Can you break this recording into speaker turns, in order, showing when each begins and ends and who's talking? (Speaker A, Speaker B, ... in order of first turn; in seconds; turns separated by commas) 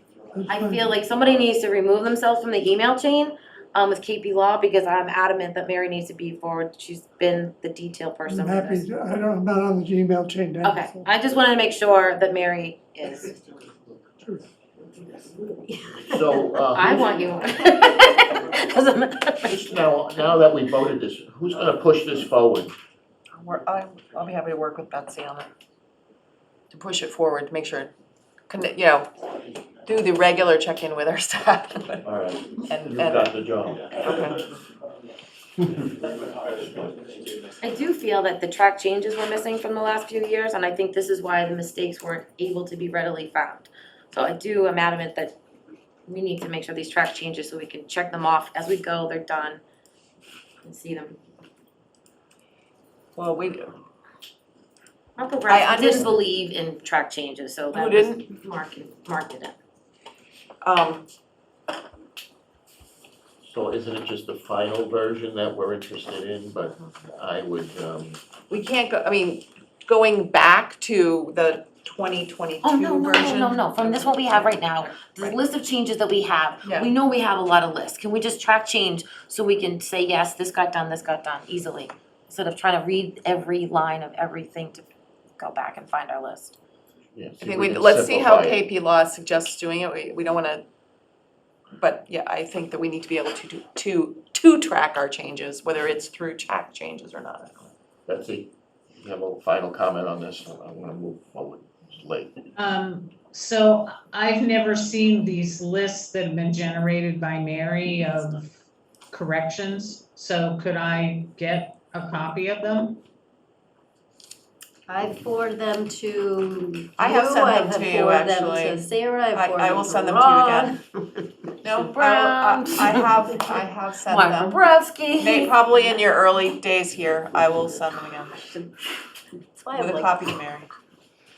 Speaker A: 0.3-0.9, Speaker B: 0.5-8.8, Speaker A: 8.3-11.1, Speaker B: 10.6-13.4, Speaker A: 14.2-14.5, Speaker C: 15.7-16.1, Speaker D: 16.0-17.1, Speaker B: 16.7-19.6, Speaker D: 19.4-22.7, Speaker E: 23.3-25.5, Speaker E: 26.7-27.9, Speaker E: 28.5-29.1, Speaker E: 29.8-32.0, Speaker D: 32.0-33.9, Speaker E: 32.7-33.3, Speaker E: 33.9-34.6, Speaker B: 37.6-45.4, Speaker B: 46.1-49.6, Speaker B: 50.6-51.1, Speaker E: 53.1-53.7, Speaker B: 55.2-59.5, Speaker E: 55.5-56.1, Speaker E: 57.8-58.2, Speaker E: 60.6-61.1, Speaker D: 63.4-68.2, Speaker E: 68.5-74.1, Speaker B: 72.6-84.9, Speaker E: 76.6-76.9, Speaker B: 85.4-86.5, Speaker D: 87.1-88.6, Speaker E: 87.4-90.6, Speaker E: 91.8-97.7, Speaker D: 98.0-102.3, Speaker F: 102.5-113.0, Speaker C: 114.9-120.7, Speaker E: 116.9-118.8, Speaker E: 119.3-120.8, Speaker E: 121.6-124.6, Speaker B: 121.9-122.9, Speaker B: 124.1-125.5, Speaker E: 125.1-128.4, Speaker C: 129.6-130.0, Speaker E: 129.7-130.7